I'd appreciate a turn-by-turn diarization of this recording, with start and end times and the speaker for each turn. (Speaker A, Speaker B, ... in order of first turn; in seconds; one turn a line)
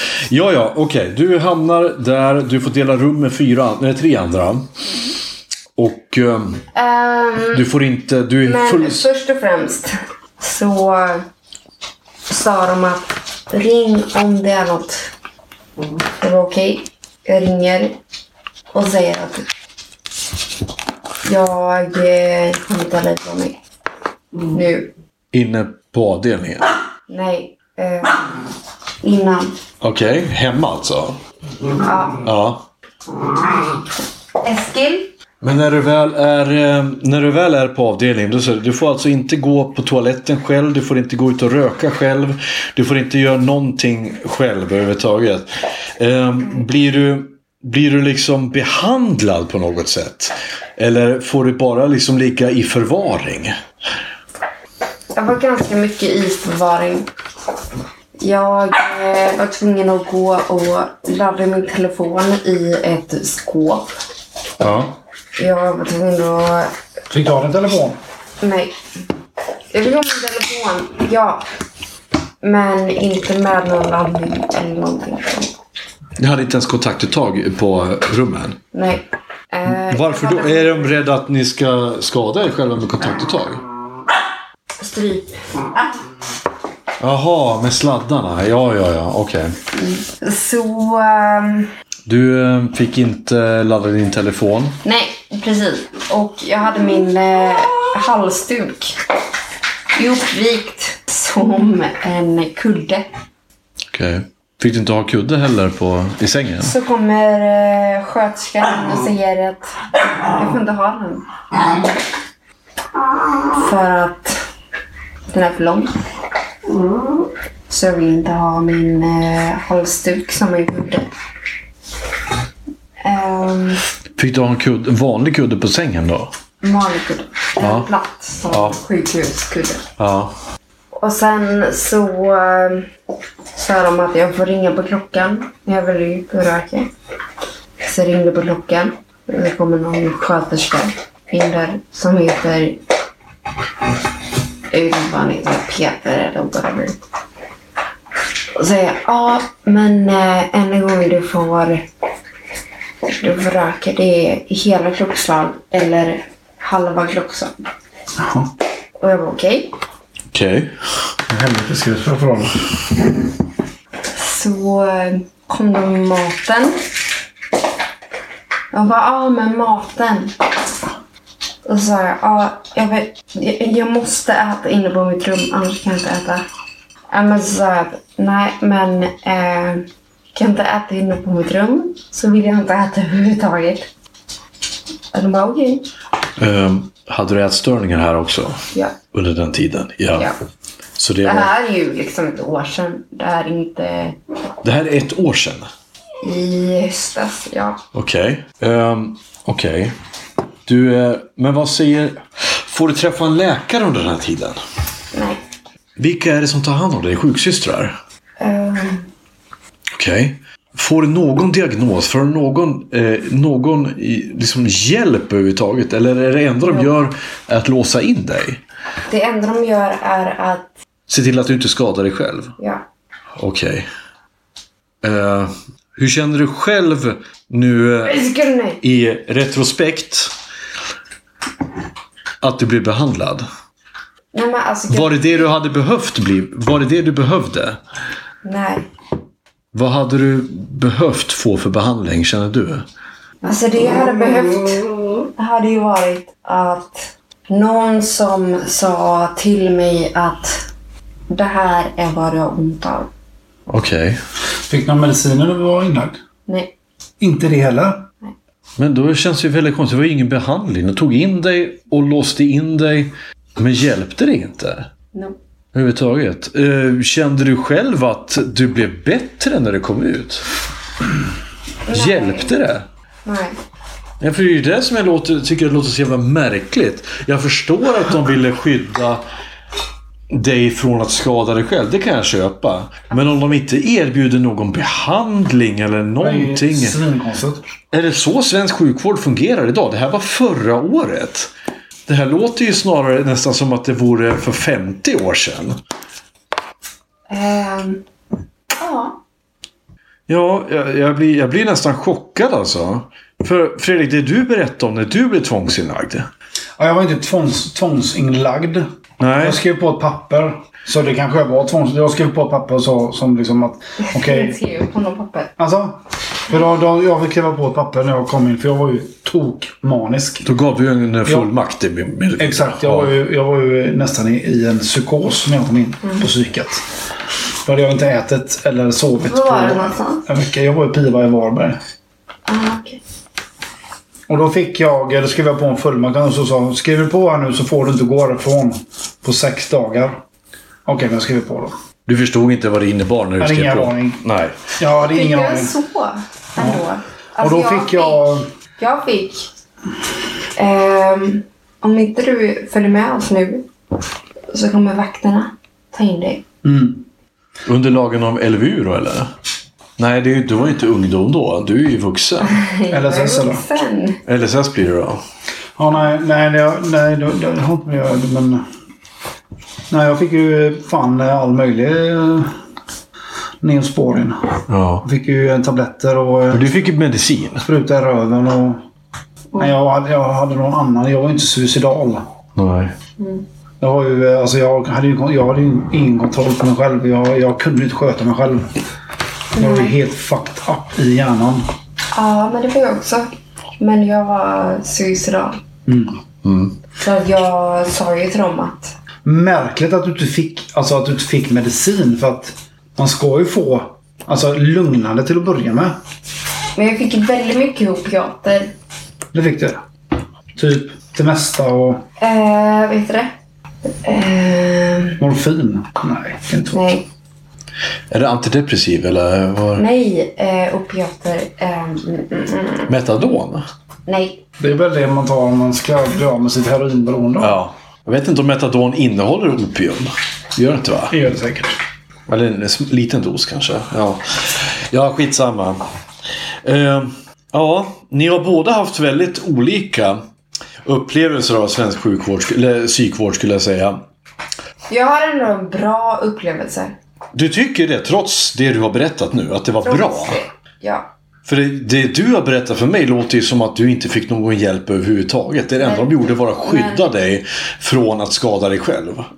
Speaker A: 0.3-4.7
Speaker A: 5.8-6.6
Speaker B: 6.7-7.7
Speaker A: 7.5-9.1
Speaker B: 8.4-11.3
Speaker B: 12.3-15.1
Speaker B: 16.2-18.0
Speaker B: 18.7-19.5
Speaker B: 21.2-23.6
Speaker B: 24.5-24.9
Speaker A: 25.3-26.7
Speaker B: 27.1-28.4
Speaker B: 29.0-29.6
Speaker A: 29.8-31.2
Speaker B: 31.8-32.2
Speaker A: 32.2-32.7
Speaker B: 34.4-35.1
Speaker A: 35.4-45.5
Speaker A: 46.0-53.5
Speaker B: 55.1-57.1
Speaker B: 58.2-63.9
Speaker A: 64.6-64.9
Speaker B: 65.4-66.7
Speaker C: 67.1-68.0
Speaker B: 68.4-68.8
Speaker B: 69.7-71.4
Speaker B: 72.4-75.5
Speaker A: 76.2-78.6
Speaker B: 78.7-80.9
Speaker A: 79.7-83.6
Speaker B: 84.8-85.6
Speaker A: 87.0-89.6
Speaker B: 89.8-91.7
Speaker A: 92.1-94.8
Speaker B: 94.8-99.0
Speaker B: 100.0-103.1
Speaker A: 103.9-106.7
Speaker B: 106.6-109.8
Speaker B: 110.3-111.3
Speaker B: 113.5-114.4
Speaker B: 115.3-116.0
Speaker B: 117.7-121.1
Speaker B: 123.0-123.8
Speaker A: 124.2-126.3
Speaker B: 126.6-129.8
Speaker A: 127.6-127.9
Speaker A: 128.5-128.8
Speaker A: 130.0-130.3
Speaker B: 130.9-132.9
Speaker B: 133.6-136.9
Speaker B: 137.8-142.8
Speaker B: 144.7-147.0
Speaker B: 148.6-151.9
Speaker B: 153.1-157.5
Speaker C: 158.2-158.5
Speaker B: 159.0-159.7
Speaker A: 160.3-160.7
Speaker C: 161.3-162.7
Speaker B: 164.1-166.8
Speaker B: 168.7-170.3
Speaker B: 171.7-176.4
Speaker B: 177.1-183.9
Speaker B: 185.1-185.9
Speaker A: 186.4-188.6
Speaker A: 189.1-190.3
Speaker A: 191.0-191.5
Speaker B: 191.2-194.2
Speaker A: 194.6-195.7
Speaker B: 196.2-197.8
Speaker A: 197.9-199.9
Speaker A: 200.7-204.6
Speaker B: 205.1-205.4
Speaker A: 206.0-207.9
Speaker B: 208.4-209.1
Speaker A: 210.0-218.6
Speaker B: 216.6-216.9
Speaker B: 219.1-220.7
Speaker A: 221.1-222.5
Speaker A: 223.4-223.9
Speaker A: 225.0-228.2
Speaker B: 228.1-228.8
Speaker A: 228.8-230.3
Speaker A: 232.4-233.5
Speaker B: 234.3-235.3
Speaker A: 234.9-237.8
Speaker B: 238.4-238.9
Speaker A: 239.7-242.8
Speaker B: 243.4-244.8
Speaker B: 245.4-250.7
Speaker B: 251.3-253.1
Speaker A: 253.7-254.2
Speaker C: 254.7-256.2
Speaker B: 256.5-256.7
Speaker C: 257.2-258.1
Speaker A: 258.8-264.9
Speaker A: 265.7-270.4
Speaker B: 271.9-272.5
Speaker A: 271.9-272.9
Speaker B: 273.2-273.6
Speaker A: 274.2-279.2
Speaker A: 280.3-287.0
Speaker B: 283.1-283.4
Speaker C: 286.2-287.6
Speaker A: 287.9-291.5
Speaker A: 292.1-295.8
Speaker B: 297.3-298.0
Speaker B: 298.7-299.2
Speaker A: 300.3-306.3
Speaker C: 306.8-308.9
Speaker A: 309.2-309.6
Speaker C: 309.4-314.6
Speaker B: 314.0-315.5
Speaker C: 315.6-320.5
Speaker A: 320.4-323.1
Speaker C: 322.4-326.8
Speaker C: 327.6-331.8
Speaker B: 329.2-330.3
Speaker B: 332.5-333.0
Speaker C: 334.3-340.2
Speaker C: 340.9-341.7
Speaker A: 342.1-344.6
Speaker C: 343.4-344.2
Speaker C: 344.8-345.7
Speaker B: 344.9-348.3
Speaker C: 347.4-348.5
Speaker B: 348.8-349.5
Speaker B: 350.6-353.7
Speaker B: 354.5-356.4
Speaker C: 356.6-357.0
Speaker A: 357.7-359.3
Speaker A: 360.0-362.6
Speaker B: 362.4-364.2
Speaker C: 362.9-363.6
Speaker A: 364.3-365.2
Speaker C: 365.8-368.6
Speaker C: 369.9-372.5
Speaker C: 373.6-376.7
Speaker A: 374.7-375.1
Speaker A: 376.5-377.6
Speaker C: 377.6-378.8
Speaker C: 379.6-382.3
Speaker A: 382.6-382.9
Speaker B: 383.2-383.4
Speaker C: 383.8-388.8
Speaker B: 389.6-389.9
Speaker C: 389.6-391.7
Speaker B: 392.1-393.3
Speaker B: 393.8-395.6
Speaker C: 395.9-396.2
Speaker A: 396.4-396.8
Speaker B: 397.0-398.9
Speaker C: 399.2-406.0
Speaker B: 406.8-408.7
Speaker C: 409.3-409.8
Speaker C: 410.6-412.0
Speaker B: 412.2-413.3
Speaker B: 414.0-415.2
Speaker C: 415.2-416.8
Speaker B: 416.7-417.1
Speaker A: 418.1-419.8
Speaker B: 419.8-423.0
Speaker A: 422.9-423.6
Speaker B: 424.1-424.4
Speaker C: 424.6-427.6
Speaker A: 427.4-431.2
Speaker C: 431.1-431.8
Speaker A: 432.3-435.8
Speaker A: 436.6-440.2
Speaker A: 440.9-444.0
Speaker B: 444.9-447.0
Speaker A: 447.3-450.4
Speaker B: 449.8-451.1
Speaker A: 451.5-459.3
Speaker B: 455.8-457.1